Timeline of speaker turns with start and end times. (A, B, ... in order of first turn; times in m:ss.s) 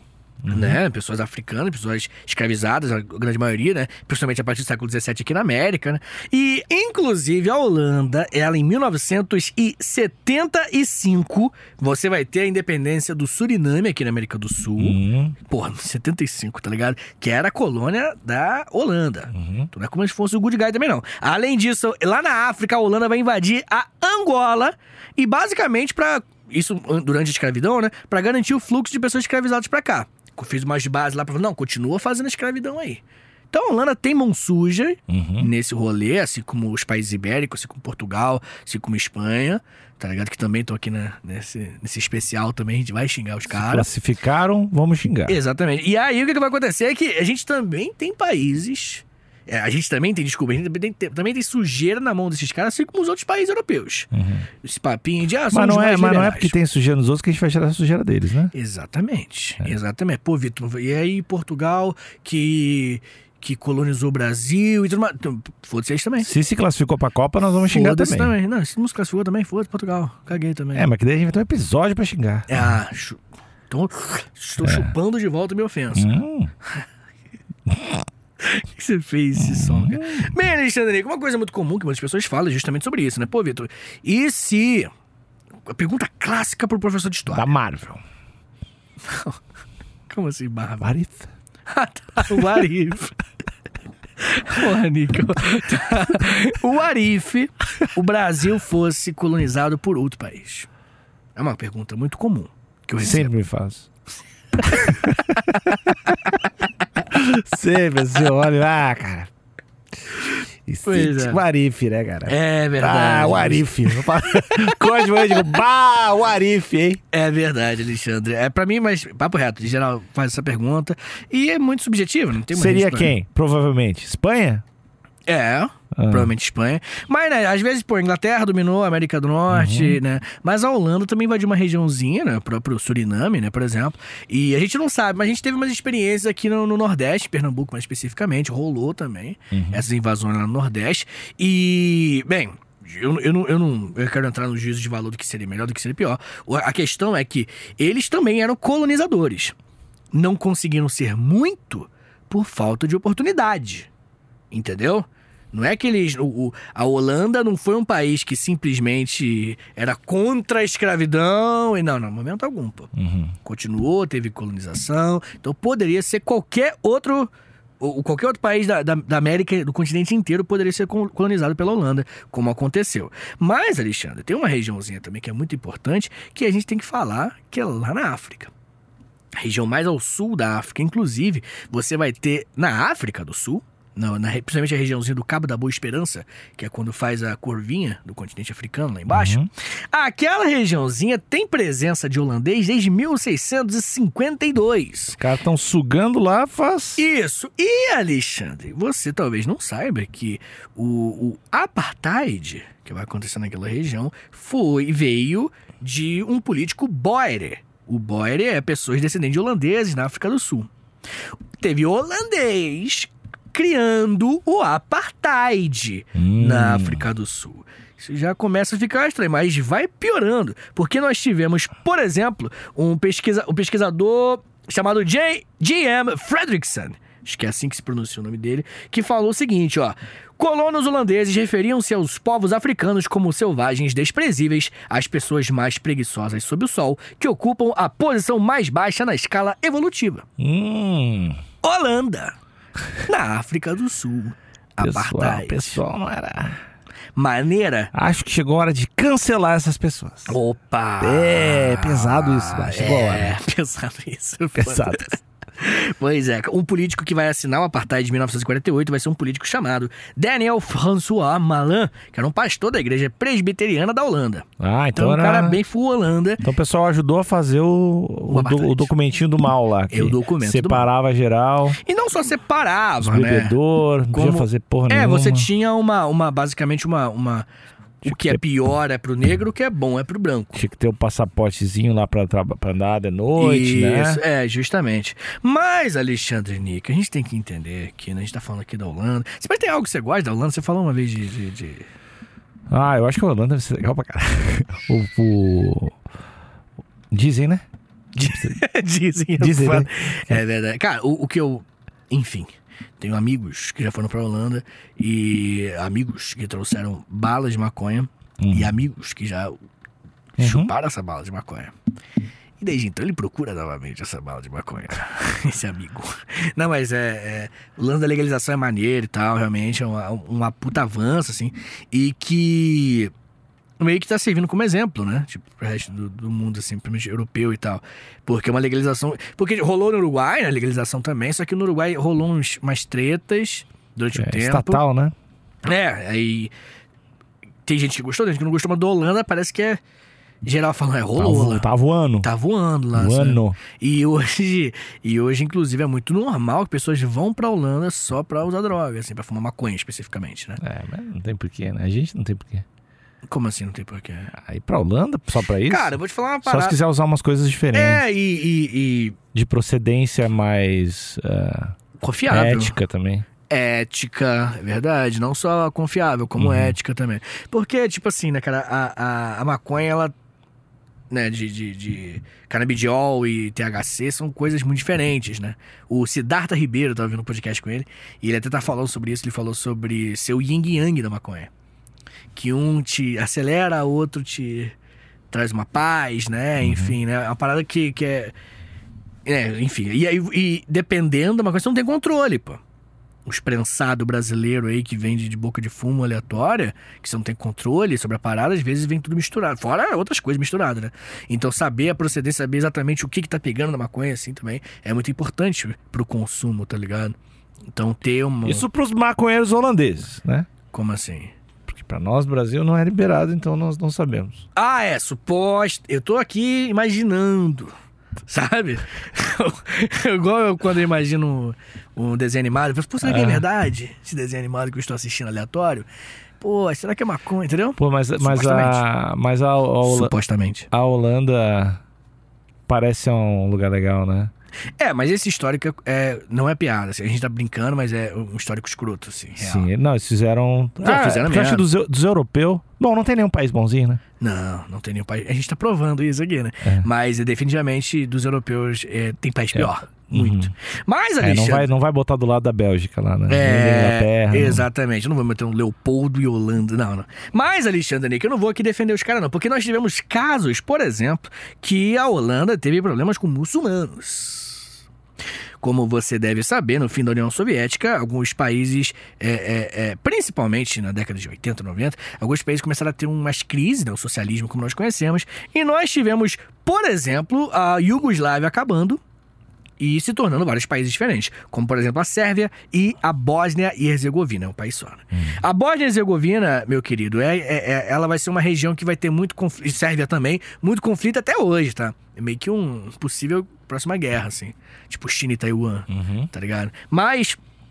0:00.4-0:00.8 A
0:00.5-0:43.9 B
0:14.8-0:15.4 A
0:19.3-0:19.7 A
0:35.1-0:35.5 A
0:43.5-0:45.4 A
0:45.3-0:54.1 B
0:54.1-0:54.5 A
0:54.6-0:56.6 B
0:55.5-0:58.5 A
0:58.5-1:06.3 B
1:06.2-1:08.3 A
1:07.7-1:10.9 B
1:10.8-1:12.5 A
1:12.5-1:16.1 B
1:14.6-1:14.9 A
1:16.0-1:16.5 A
1:17.7-1:18.0 A
1:18.4-1:24.9 B
1:19.4-1:20.3 A
1:25.7-1:27.5 B
1:27.3-1:28.0 A
1:29.0-1:29.4 B
1:30.1-1:30.9 B
1:30.8-1:31.3 A
1:31.7-1:33.2 B
1:34.2-1:40.7 B
1:41.4-1:43.3 B
1:43.0-1:43.9 A
1:44.7-1:46.4 A
1:47.1-1:49.3 A
1:50.7-1:57.0 A
1:50.8-1:51.4 B
1:52.2-1:55.3 B
1:57.1-2:03.2 B
2:02.5-2:04.6 A
2:05.3-2:29.6 B
2:06.0-2:06.3 A
2:09.5-2:10.0 A
2:19.5-2:19.8 A
2:30.1-2:33.9 B
2:34.5-2:42.9 B
2:43.0-2:43.4 A
2:43.4-2:58.5 B
2:59.4-3:09.4 B
3:09.1-3:09.5 A
3:09.9-3:15.2 B
3:15.2-3:17.0 A
3:17.0-3:30.7 B
3:31.6-4:00.2 B
3:36.2-3:37.1 A
4:00.4-4:01.4 A
4:01.6-4:02.4 B
4:03.0-4:05.8 B
4:04.8-4:06.6 A
4:07.2-4:07.9 B
4:07.9-4:10.4 A
4:10.3-4:26.4 B
4:11.0-4:13.4 A
4:14.6-4:15.2 A
4:24.6-4:25.6 A
4:26.4-4:31.8 A
4:28.3-4:28.9 B
4:29.9-4:30.9 B
4:31.8-4:33.6 B
4:33.0-4:35.5 A
4:34.1-4:37.5 B
4:38.0-4:38.4 A
4:38.0-4:40.6 B
4:40.6-4:44.2 A
4:43.4-4:51.9 B
4:52.7-4:56.0 A
4:57.1-4:57.6 A
4:58.2-5:02.5 B
4:58.3-4:58.6 A
4:59.4-5:00.4 A
5:03.0-5:09.6 B
5:08.4-5:08.8 A
5:10.4-5:11.7 B
5:10.4-5:10.7 A
5:12.6-5:23.1 B
5:23.8-5:34.8 B
5:34.2-5:35.1 A
5:35.6-5:36.5 B
5:37.7-5:39.8 B
5:40.4-5:41.7 B
5:41.2-5:42.3 A
5:42.2-5:50.6 B
5:42.9-5:43.6 A
5:50.6-5:52.7 A
5:53.3-5:54.3 B
5:54.3-5:58.0 A
5:55.7-5:56.8 B
5:57.7-5:59.2 B
5:59.3-6:01.8 A
6:02.0-6:02.8 B
6:02.3-6:03.3 A
6:03.5-6:10.1 B
6:06.4-6:06.8 A
6:11.1-6:21.5 B
6:22.3-6:24.8 B
6:25.3-6:28.3 B
6:26.6-6:27.0 A
6:29.2-6:32.6 B
6:33.2-6:47.2 B
6:47.7-6:48.6 B
6:48.4-6:50.5 A
6:50.7-6:51.3 B
6:51.7-6:54.4 A
6:54.6-6:57.7 B
6:58.3-7:05.9 B
7:03.0-7:03.4 A
7:06.4-7:08.8 B
7:07.8-7:10.1 A
7:09.8-7:10.7 B
7:10.7-7:11.8 A
7:12.7-7:14.3 A
7:14.8-7:19.7 B
7:19.4-7:24.0 A
7:20.8-7:21.6 B
7:24.2-7:31.7 B
7:26.6-7:26.9 A
7:29.5-7:30.5 A
7:31.2-7:34.6 A
7:33.3-7:44.7 B
7:45.6-7:59.0 B
7:59.8-8:17.4 B
8:05.1-8:05.4 A
8:15.9-8:16.3 A